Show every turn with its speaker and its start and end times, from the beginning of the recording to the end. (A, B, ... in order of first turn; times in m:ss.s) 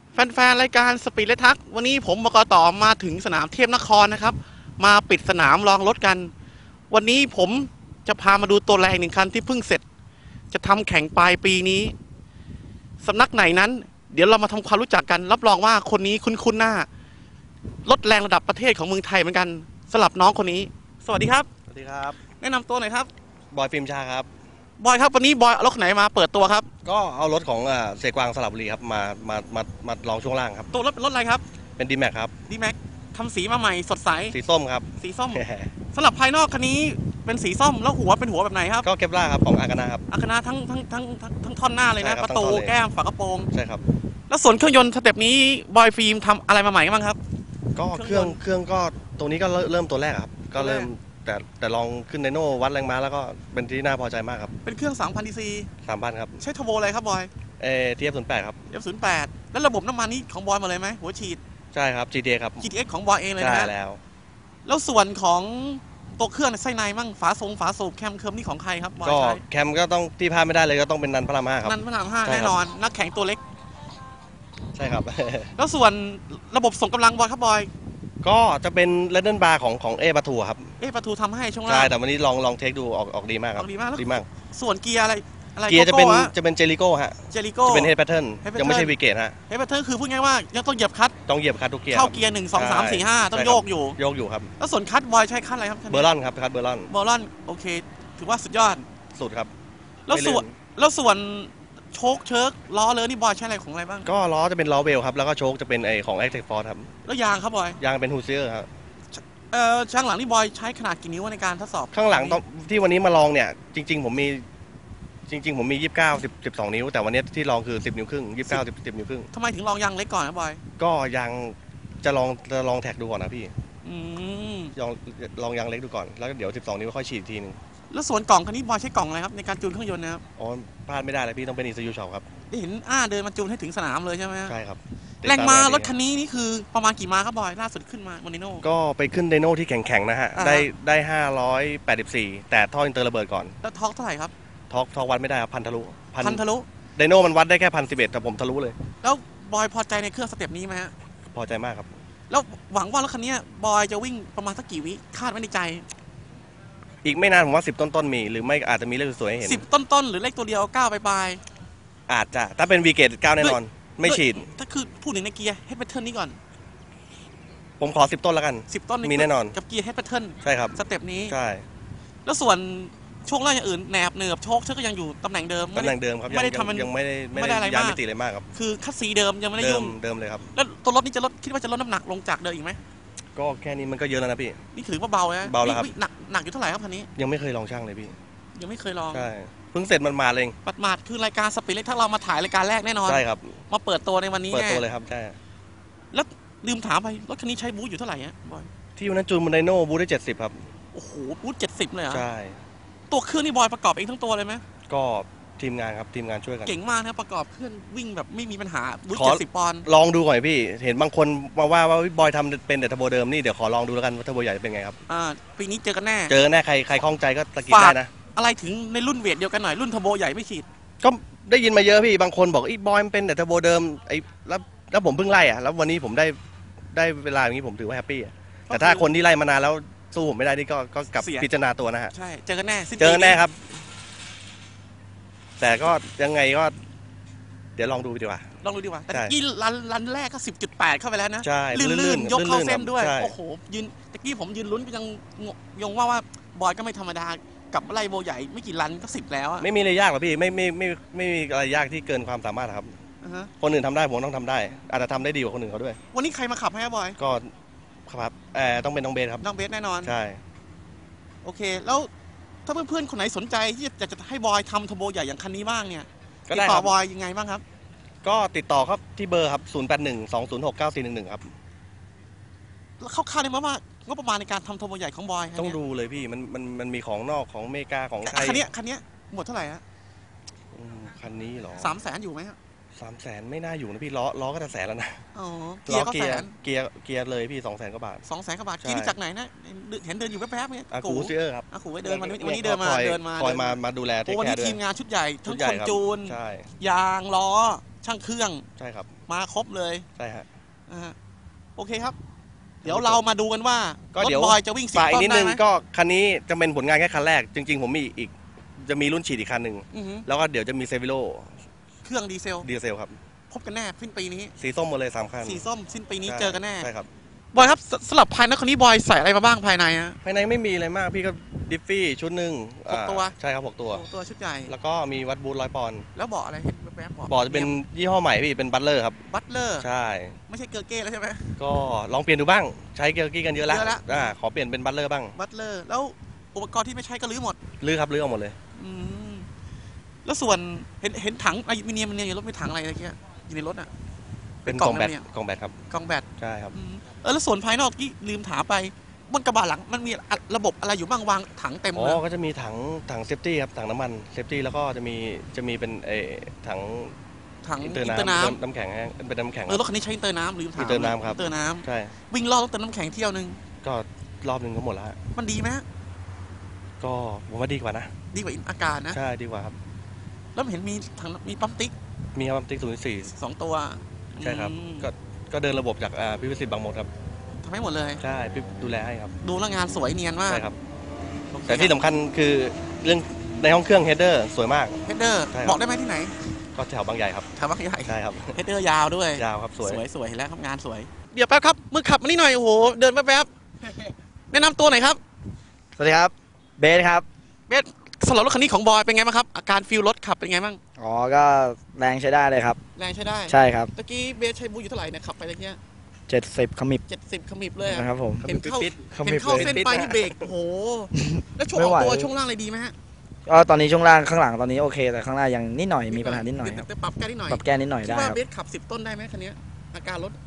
0:00.1-0:06.3 A
0:06.9-0:09.8 A
0:10.5-0:11.9 A
0:13.0-0:16.9 A
0:17.8-0:21.5 A
0:21.7-0:22.2 B
0:22.2-0:23.1 A
0:23.5-0:24.3 B
0:24.8-0:26.7 A
0:26.8-0:30.7 B
0:30.7-0:31.4 A
0:31.8-0:32.3 B
0:32.5-0:34.4 A
0:34.3-0:35.7 B
0:35.0-0:38.9 A
0:38.8-0:40.0 B
0:40.1-0:43.5 A
0:42.0-0:42.8 B
0:43.5-0:43.8 B
0:44.3-0:47.2 A
0:47.7-0:54.5 B
0:47.8-0:48.4 A
0:50.5-0:50.9 A
0:54.6-0:55.7 A
0:55.8-0:56.4 B
0:56.4-0:57.3 A
0:57.6-0:58.6 B
0:58.7-1:01.4 A
1:01.7-1:02.6 B
1:02.6-1:03.7 A
1:03.4-1:04.0 B
1:04.6-1:09.4 A
1:09.0-1:12.6 B
1:11.6-1:13.4 A
1:14.7-1:15.5 B
1:15.6-1:17.7 A
1:18.2-1:20.7 B
1:20.8-1:21.9 A
1:21.7-1:24.3 B
1:23.6-1:26.3 A
1:25.7-1:29.4 B
1:27.3-1:28.9 A
1:29.5-1:31.2 A
1:31.3-1:34.5 B
1:31.9-1:34.0 A
1:34.6-1:36.1 A
1:35.9-1:36.9 B
1:36.9-1:38.8 A
1:39.2-1:39.5 B
1:40.1-1:44.1 A
1:40.1-1:40.5 B
1:44.0-1:46.9 B
1:47.0-1:47.8 A
1:47.8-1:48.7 B
1:49.1-1:52.4 A
1:51.9-1:54.4 B
1:55.3-1:59.3 B
1:59.3-2:00.6 A
2:00.8-2:03.5 B
2:03.8-2:04.7 A
2:04.8-2:07.6 B
2:07.9-2:10.2 A
2:10.4-2:12.2 B
2:12.5-2:14.6 A
2:14.5-2:15.9 B
2:15.2-2:18.6 A
2:18.6-2:23.6 B
2:20.3-2:20.7 A
2:23.6-2:24.3 A
2:24.7-2:26.4 B
2:26.2-2:26.6 A
2:27.0-2:28.8 B
2:29.0-2:30.9 A
2:31.3-2:31.9 B
2:32.3-2:35.8 A
2:37.0-2:39.6 B
2:39.4-2:41.4 A
2:42.1-2:44.5 B
2:43.4-2:46.4 A
2:47.8-2:49.6 B
2:48.7-2:51.4 A
2:50.4-2:51.6 B
2:52.2-2:58.0 A
2:55.7-2:58.5 B
2:58.5-3:00.0 A
2:59.6-3:00.4 B
3:00.5-3:02.8 A
3:03.4-3:04.6 B
3:04.7-3:07.1 A
3:05.4-3:05.9 B
3:07.2-3:08.1 B
3:08.5-3:09.3 A
3:09.1-3:10.5 B
3:10.6-3:14.8 A
3:13.0-3:13.6 B
3:14.5-3:15.4 B
3:16.1-3:18.7 A
3:19.0-3:20.6 B
3:20.9-3:22.2 A
3:22.1-3:22.6 B
3:23.1-3:24.6 A
3:24.9-3:26.7 B
3:26.6-3:29.9 A
3:29.1-3:35.0 B
3:35.1-3:36.4 A
3:36.3-3:38.1 B
3:37.6-3:40.6 A
3:41.0-3:46.4 B
3:46.9-3:52.1 B
3:48.7-3:49.1 A
3:51.2-3:51.5 A
3:52.1-3:53.4 A
3:53.0-3:53.7 B
3:55.6-3:56.8 B
3:57.8-3:58.5 B
3:58.6-4:09.7 A
4:01.4-4:03.3 B
4:09.6-4:12.9 B
4:13.2-4:13.5 A
4:13.6-4:16.0 B
4:16.1-4:17.2 A
4:17.2-4:17.5 B
4:18.1-4:19.4 B
4:19.4-4:20.1 A
4:20.0-4:20.4 B
4:21.4-4:22.1 A
4:22.6-4:27.6 A
4:26.5-4:26.9 B
4:28.2-4:31.5 B
4:33.0-4:35.8 A
4:35.5-4:38.7 B
4:38.2-4:39.8 A
4:40.7-4:42.0 B
4:41.8-4:42.6 A
4:43.0-4:45.2 B
4:45.3-4:46.5 A
4:45.9-4:48.2 B
4:48.2-4:58.6 A
4:48.8-4:49.2 B
4:50.9-4:54.8 B
4:55.4-4:56.7 B
4:58.8-4:59.1 B
4:59.3-5:00.0 A
5:00.2-5:00.4 B
5:00.9-5:01.1 A
5:01.8-5:02.2 A
5:02.8-5:03.2 B
5:02.8-5:05.6 A
5:04.1-5:11.6 B
5:09.9-5:10.2 A
5:12.0-5:12.7 A
5:12.6-5:13.2 B
5:13.5-5:14.5 A
5:14.6-5:15.6 B
5:15.4-5:16.9 A
5:16.2-5:17.1 B
5:17.5-5:20.2 A
5:20.2-5:24.0 B
5:22.9-5:23.3 A
5:23.9-5:24.7 A
5:24.7-5:26.0 B
5:26.1-5:27.8 A
5:27.3-5:29.2 B
5:29.2-5:29.8 A
5:29.8-5:30.4 B
5:30.5-5:31.6 A
5:31.6-5:35.3 B
5:33.6-5:34.3 A
5:35.3-5:37.6 A
5:37.8-5:38.6 B
5:38.8-5:39.5 A
5:40.2-5:43.9 A
5:44.6-5:45.2 A
5:44.6-5:45.7 B
5:45.9-5:52.2 A
5:46.4-5:46.7 B
5:51.9-5:57.1 B
5:57.6-5:58.6 A
5:57.8-5:59.8 B
5:59.7-6:03.6 A
6:00.8-6:02.1 B
6:03.8-6:05.2 B
6:05.3-6:05.8 A
6:07.0-6:08.1 B
6:08.3-6:09.2 A
6:09.1-6:09.7 B
6:10.5-6:11.9 A
6:12.3-6:13.3 B
6:13.3-6:15.1 A
6:14.4-6:17.1 B
6:17.6-6:18.2 A
6:18.2-6:19.3 B
6:19.4-6:20.6 A
6:20.5-6:20.8 B
6:21.5-6:22.0 A
6:21.7-6:25.0 B
6:25.0-6:26.3 A
6:25.5-6:25.8 B
6:26.8-6:27.5 B
6:27.5-6:35.2 A
6:28.0-6:28.5 B
6:29.3-6:30.0 B
6:36.0-6:37.2 C
6:37.7-6:40.8 A
6:41.0-6:42.8 C
6:43.0-6:45.8 A
6:43.5-6:43.9 C
6:46.3-6:47.0 C
6:47.0-6:52.9 A
6:47.8-6:48.6 C
6:48.4-6:50.5 B
6:49.1-6:49.8 C
6:51.1-6:52.3 C
6:53.5-6:56.8 C
6:56.1-7:00.4 A
6:57.5-6:58.4 C